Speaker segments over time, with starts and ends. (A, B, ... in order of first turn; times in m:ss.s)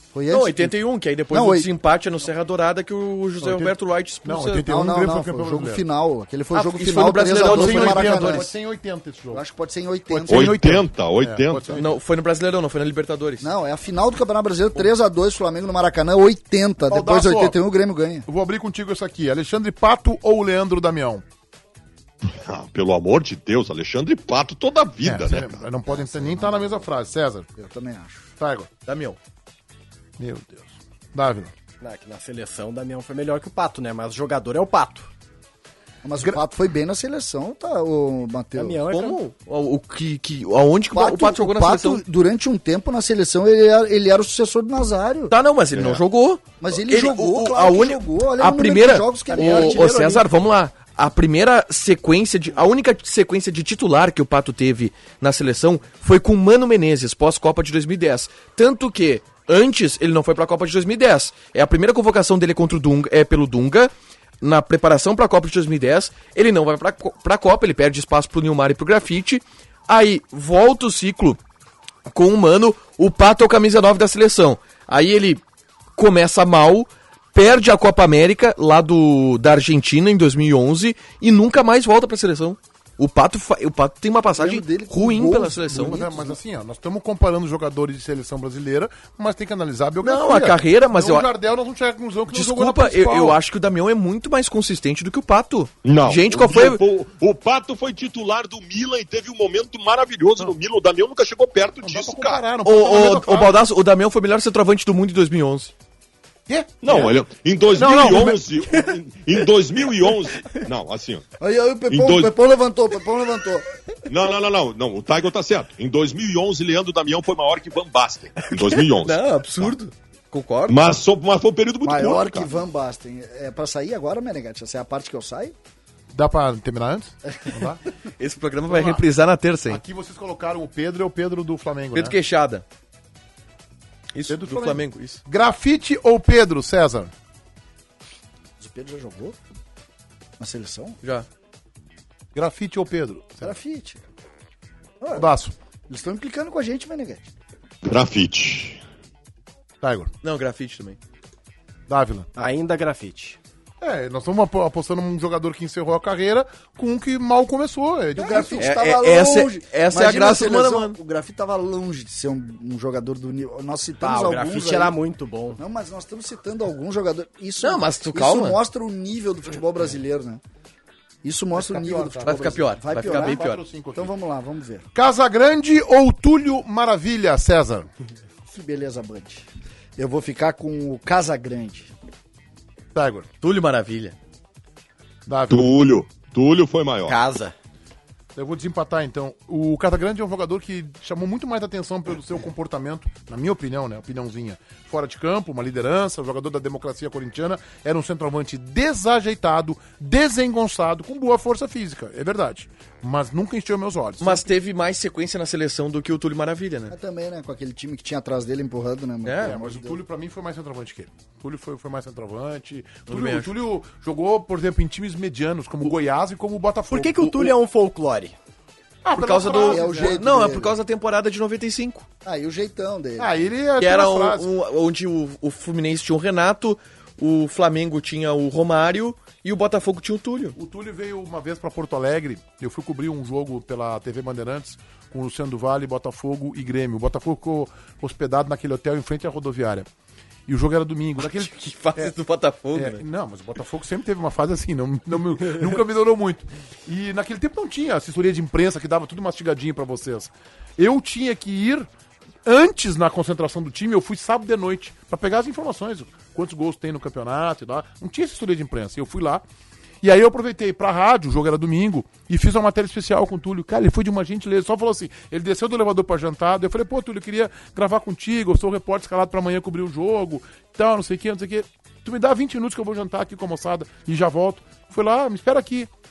0:00.1-0:00.8 A
0:00.3-0:04.7 B
0:01.3-0:01.7 A
0:03.4-0:05.8 C
0:04.6-0:08.5 A
0:06.5-0:08.5 B
0:07.3-0:09.4 C
0:09.3-0:10.6 A
0:10.1-0:11.9 C
0:10.3-0:11.8 D
0:11.8-0:13.5 B
0:13.4-0:18.3 A
0:16.9-0:17.6 C
0:18.3-0:21.2 C
0:22.2-0:25.7 D
0:25.0-0:27.5 C
0:25.9-0:26.9 A
0:27.6-0:28.3 A
0:28.4-0:28.7 C
0:28.9-0:29.2 B
0:30.2-0:31.5 C
0:31.8-0:35.1 E
0:36.0-0:38.8 A
0:38.6-0:39.2 E
0:38.9-0:42.0 B
0:40.9-0:45.3 A
0:45.3-1:11.4 B
0:45.7-0:46.0 D
0:46.6-0:50.2 A
0:49.4-0:50.2 E
1:12.1-1:15.4 B
1:16.0-1:26.1 B
1:24.3-1:26.4 A
1:25.7-1:33.4 C
1:30.0-1:31.3 B
1:32.3-1:36.8 B
1:35.8-1:42.4 D
1:41.8-1:43.6 C
1:42.6-1:45.7 B
1:46.5-1:47.1 C
1:46.8-1:51.2 D
1:47.7-1:48.4 C
1:51.4-1:53.7 A
1:51.9-1:52.3 D
1:54.1-1:59.2 D
1:58.5-2:00.9 B
2:00.7-2:02.5 D
2:01.8-2:05.6 A
2:06.1-2:07.8 C
2:08.2-2:09.8 B
2:08.7-2:09.0 C
2:09.7-2:12.2 C
2:11.9-2:12.6 B
2:14.1-2:15.2 B
2:14.3-2:17.1 C
2:18.6-2:19.4 A
2:20.4-2:21.0 A
2:22.3-2:23.5 C
2:23.4-2:24.0 A
2:25.0-2:25.3 A
2:25.1-2:25.5 C
2:25.9-2:27.3 A
2:27.8-2:28.8 D
2:29.8-2:30.1 C
2:30.2-2:31.0 B
2:31.9-2:32.3 C
2:32.4-2:33.4 E
2:33.8-2:38.7 C
2:38.2-2:45.0 A
2:38.6-2:41.0 B
2:44.0-2:45.6 E
2:45.6-2:50.4 A
2:47.6-2:48.6 B
2:51.2-2:54.9 A
2:51.6-2:54.1 C
2:52.2-2:53.6 B
2:55.0-2:57.9 C
2:58.5-3:01.9 A
3:02.9-3:03.3 C
3:03.4-3:04.2 B
3:05.3-3:05.7 C
3:05.5-3:07.2 D
3:07.1-3:07.5 E
3:08.4-3:24.4 C
3:24.2-3:26.9 B
3:26.9-3:30.0 A
3:29.2-3:29.5 B
3:29.4-3:37.2 C
3:33.1-3:33.5 B
3:36.9-3:38.4 E
3:37.2-3:37.5 B
3:39.0-3:40.2 C
3:39.1-3:42.1 B
3:39.6-3:40.8 A
3:42.2-3:43.4 A
3:43.2-3:44.5 C
3:43.8-3:50.6 B
3:50.6-3:59.9 C
4:00.5-4:02.1 C
4:01.2-4:03.0 B
4:02.7-4:11.9 C
4:12.4-4:19.4 C
4:20.0-4:35.9 C